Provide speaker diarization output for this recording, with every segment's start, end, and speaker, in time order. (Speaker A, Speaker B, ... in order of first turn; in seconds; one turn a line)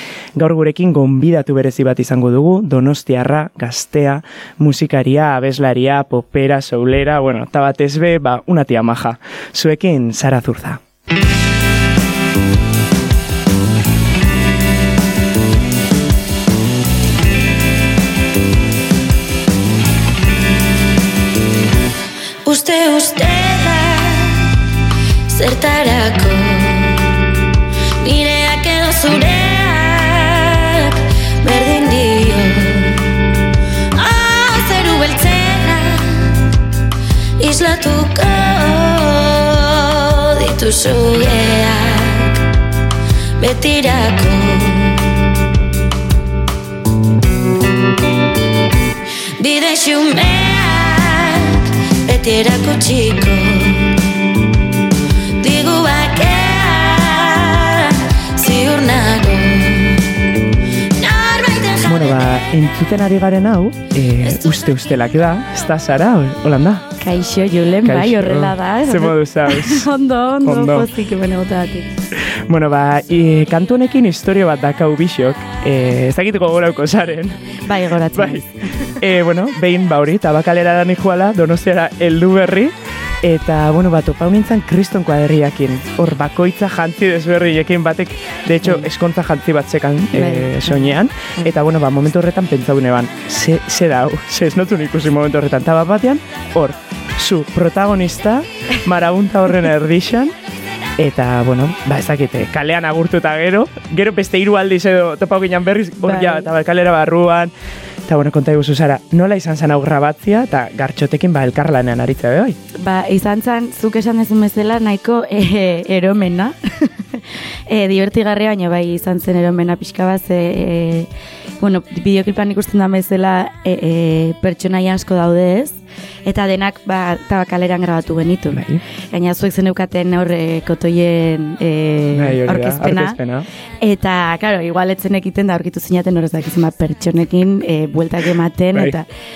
Speaker A: 0.3-10.8
Speaker B: 22.4-24.5
Speaker B: 25.3-27.1
Speaker B: 28.0-33.1
Speaker B: 34.0-36.4
Speaker B: 37.4-42.4
Speaker B: 43.4-45.0
Speaker B: 49.4-54.0
Speaker B: 55.4-60.0
Speaker B: 61.0-62.2
Speaker A: 61.9-66.8
Speaker C: 67.0-71.9
Speaker A: 67.8-69.9
Speaker A: 70.4-70.9
Speaker A: 72.3-77.5
Speaker C: 77.6-78.7
Speaker A: 78.1-100.3
Speaker C: 88.6-88.9
Speaker C: 90.1-91.5
Speaker A: 101.0-107.5
Speaker C: 106.0-106.5
Speaker A: 108.1-112.6
Speaker C: 112.8-121.1
Speaker C: 121.6-133.2
Speaker A: 128.5-128.8
Speaker A: 132.1-133.5
Speaker C: 133.8-139.1